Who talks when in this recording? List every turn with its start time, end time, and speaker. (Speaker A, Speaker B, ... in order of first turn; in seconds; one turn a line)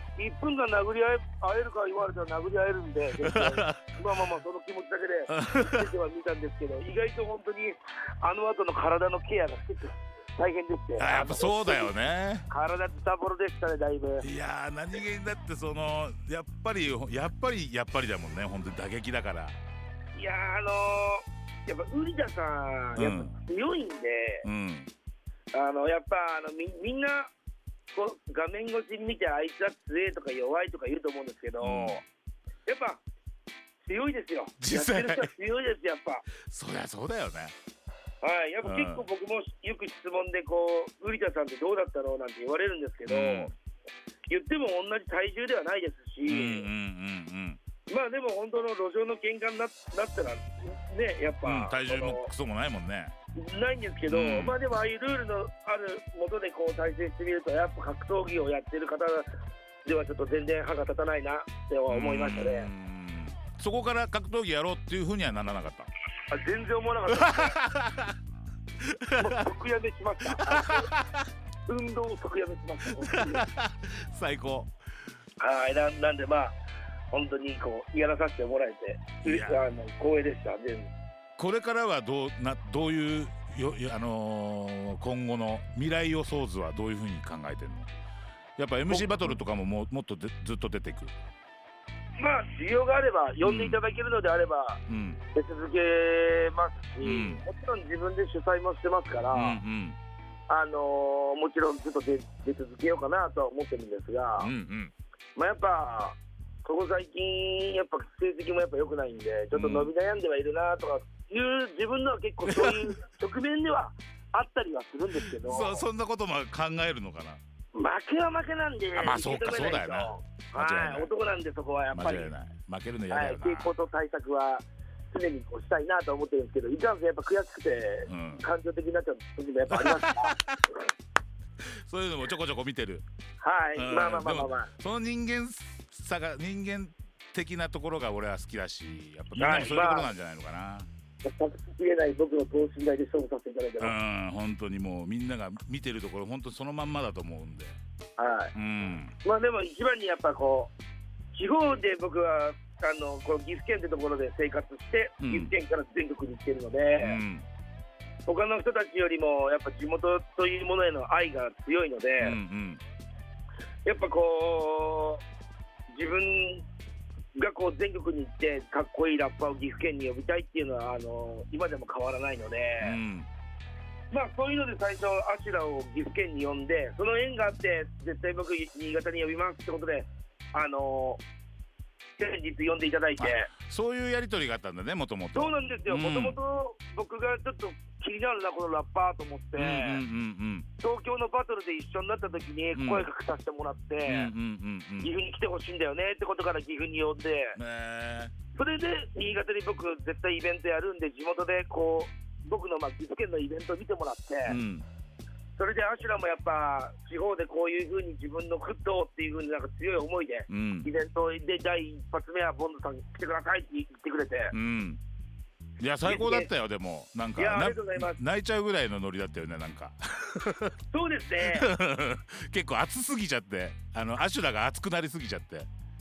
Speaker A: 0.2-11.9
Speaker B: 3.2-3.8
Speaker B: 5.3-5.9
Speaker B: 11.0-12.4
Speaker A: 12.5-14.2
Speaker B: 14.2-19.6
Speaker A: 20.1-24.4
Speaker B: 23.0-23.3
Speaker B: 24.4-24.9
Speaker A: 25.5-27.3
Speaker A: 27.9-32.0
Speaker B: 31.6-32.0
Speaker A: 32.7-33.0
Speaker A: 33.8-36.3
Speaker B: 34.6-35.3
Speaker B: 36.4-37.5
Speaker A: 38.2-43.5
Speaker B: 38.6-39.1
Speaker B: 43.1-43.5
Speaker A: 44.3-46.7
Speaker B: 46.3-47.6
Speaker A: 47.9-52.3
Speaker B: 51.4-53.1
Speaker A: 53.4-59.3
Speaker B: 54.1-54.6
Speaker A: 59.9-62.7
Speaker B: 61.9-65.9
Speaker A: 66.3-67.6
Speaker B: 67.1-68.2
Speaker B: 68.8-69.5
Speaker A: 69.2-70.9
Speaker B: 70.3-71.3
Speaker A: 71.7-73.5
Speaker B: 72.9-74.7
Speaker A: 75.4-76.5
Speaker A: 77.1-80.9
Speaker B: 79.2-79.6
Speaker B: 81.4-87.9
Speaker B: 88.6-91.1
Speaker A: 88.9-89.4
Speaker A: 92.2-94.8
Speaker B: 93.4-93.8
Speaker B: 94.9-95.2
Speaker A: 95.3-99.6
Speaker B: 97.0-97.4
Speaker B: 99.3-100.0
Speaker A: 100.5-104.5
Speaker B: 104.4-104.9
Speaker A: 105.4-115.8
Speaker B: 109.5-109.9
Speaker B: 112.5-112.9
Speaker B: 115.4-117.4
Speaker A: 117.7-122.3
Speaker B: 119.0-121.1
Speaker B: 121.9-123.7
Speaker A: 123.1-130.4
Speaker B: 128.1-128.4
Speaker B: 129.7-130.6
Speaker B: 131.9-133.0
Speaker A: 133.4-134.7
Speaker B: 133.8-140.9
Speaker A: 139.4-140.1
Speaker A: 141.2-143.9
Speaker B: 143.8-147.8
Speaker A: 148.2-148.5
Speaker B: 148.6-149.1
Speaker A: 149.2-150.7
Speaker A: 151.3-157.2
Speaker B: 155.2-155.5
Speaker B: 157.0-157.5
Speaker A: 158.3-162.4
Speaker B: 162.2-162.8
Speaker A: 163.8-165.2
Speaker A: 165.9-166.6
Speaker A: 167.3-173.0
Speaker B: 172.8-173.3
Speaker A: 174.1-181.2
Speaker A: 182.2-183.5
Speaker B: 183.2-186.4
Speaker A: 185.3-190.0
Speaker B: 189.6-190.7
Speaker A: 190.8-194.3
Speaker B: 192.7-193.1
Speaker B: 194.1-195.1
Speaker A: 195.0-197.6
Speaker B: 197.6-198.3
Speaker A: 198.6-204.6
Speaker B: 204.4-204.8
Speaker A: 205.6-214.5
Speaker B: 210.5-210.9
Speaker B: 214.5-215.0
Speaker B: 215.8-220.8
Speaker A: 216.1-216.5
Speaker A: 217.4-218.2
Speaker A: 220.9-221.7
Speaker B: 221.4-225.7